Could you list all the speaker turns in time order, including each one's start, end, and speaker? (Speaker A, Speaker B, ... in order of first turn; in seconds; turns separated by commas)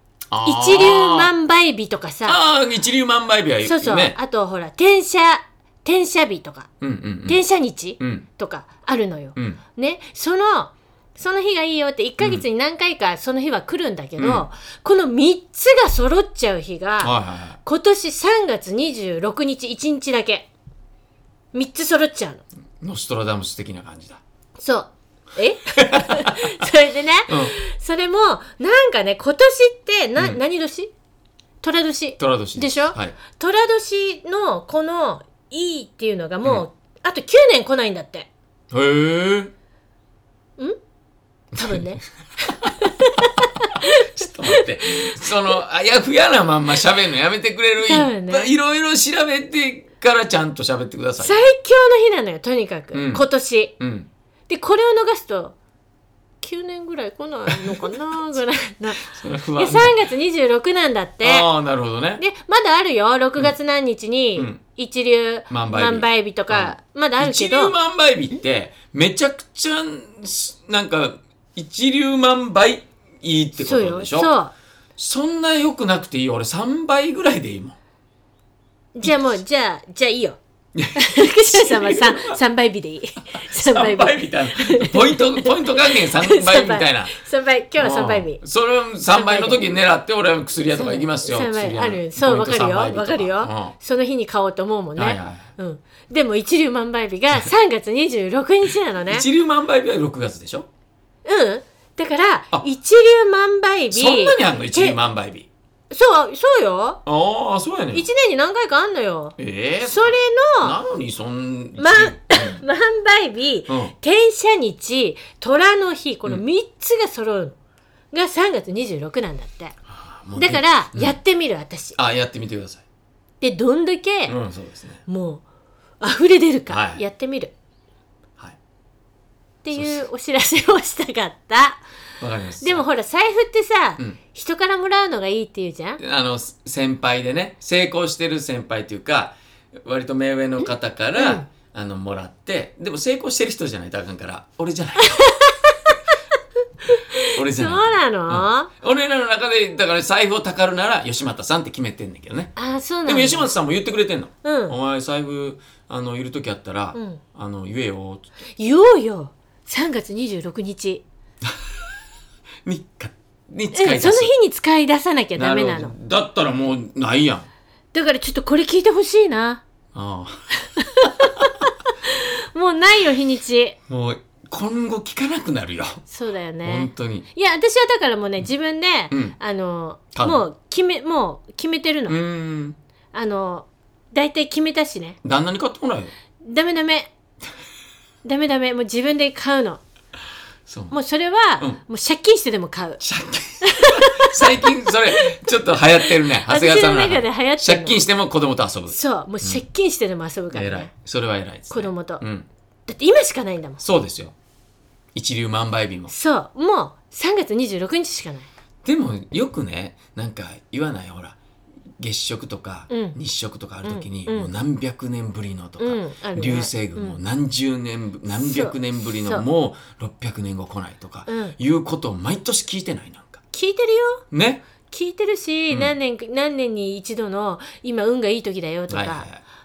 Speaker A: 0.3-1.3, Speaker B: 0.4-2.4, Speaker A: 2.2-4.2, Speaker B: 3.6-6.7, Speaker A: 6.8-7.4, Speaker B: 7.2-20.5, Speaker A: 8.0-8.2, Speaker A: 12.2-12.4, Speaker A: 14.2-14.4, Speaker A: 17.0-17.6, Speaker B: 21.5-22.4, Speaker A: 22.8-24.2, Speaker B: 24.6-30.9, Speaker A: 25.8-26.6, Speaker A: 27.3-27.5, Speaker B: 31.6-38.3, Speaker A: 32.2-33.1, Speaker A: 38.7-39.5, Speaker B: 41.5-44.6, Speaker A: 41.5-41.8, Speaker A: 43.8-51.4, Speaker B: 47.8-48.5, Speaker B: 51.2-53.7, Speaker A: 52.9-53.2, Speaker A: 53.8-54.1, Speaker B: 54.5-55.5, Speaker B: 56.4-61.5, Speaker A: 57.5-57.9, Speaker A: 59.0-60.0, Speaker A: 61.2-62.2, Speaker B: 62.2-67.7, Speaker A: 65.5-74.3, Speaker B: 73.6-74.5, Speaker A: 75.0-77.8, Speaker B: 78.9-80.4, Speaker A: 79.0-79.3, Speaker A: 80.7-82.4, Speaker B: 80.9-88.4, Speaker A: 83.4-87.1, Speaker A: 87.8-93.7, Speaker B: 89.1-89.6, Speaker B: 90.7-99.3, Speaker A: 95.0-95.5, Speaker A: 99.1-100.7, Speaker B: 101.2-105.0, Speaker A: 103.9-105.5, Speaker B: 105.9-107.0, Speaker A: 107.0-108.0, Speaker B: 107.9-110.8, Speaker A: 109.4-112.6, Speaker B: 111.8-117.6, Speaker A: 113.7-113.9, Speaker B: 118.1-119.8, Speaker A: 119.9-121.2, Speaker B: 120.3-122.0, Speaker A: 121.9-122.8, Speaker B: 123.4-124.4, Speaker A: 124.3-125.0, Speaker B: 125.0-125.4, Speaker B: 126.0-127.5, Speaker A: 126.7-127.0, Speaker B: 129.6-131.8, Speaker A: 129.7-130.0, Speaker A: 132.2-132.8, Speaker B: 132.6-136.0, Speaker A: 136.0-145.2, Speaker B: 141.2-141.5, Speaker B: 145.0-145.9, Speaker B: 146.8-148.7, Speaker A: 147.3-152.5, Speaker B: 152.6-153.5, Speaker A: 153.1-158.3, Speaker B: 154.4-154.8, Speaker B: 156.9-157.2, Speaker B: 158.6-161.0, Speaker A: 161.4-161.9, Speaker A: 162.6-164.3, Speaker B: 163.7-165.9, Speaker A: 165.4-167.5, Speaker B: 167.9-169.6, Speaker A: 169.9-170.5, Speaker B: 170.6-173.8, Speaker A: 171.1-171.5, Speaker A: 173.9-176.0, Speaker B: 176.1-182.2, Speaker A: 176.6-177.3, Speaker A: 179.1-179.3, Speaker A: 180.1-180.4, Speaker A: 182.1-182.8, Speaker B: 183.1-185.2, Speaker A: 185.2-186.1, Speaker B: 186.4-187.1, Speaker B: 188.2-189.8, Speaker A: 190.7-191.0, Speaker B: 190.9-193.0, Speaker A: 193.0-199.6, Speaker B: 193.6-198.0, Speaker B: 198.9-200.9, Speaker A: 200.5-202.5, Speaker B: 201.7-202.2, Speaker B: 202.9-203.8, Speaker A: 203.8-204.3, Speaker A: 205.1-206.1, Speaker B: 206.1-208.5, Speaker A: 208.8-211.4, Speaker A: 212.0-223.4, Speaker B: 212.9-213.2, Speaker B: 213.8-214.5, Speaker B: 215.8-217.2, Speaker B: 218.3-219.4, Speaker B: 221.3-221.5, Speaker B: 223.5-224.2, Speaker A: 224.3-224.6, Speaker B: 224.9-229.3, Speaker A: 225.7-225.9, Speaker A: 228.9-229.4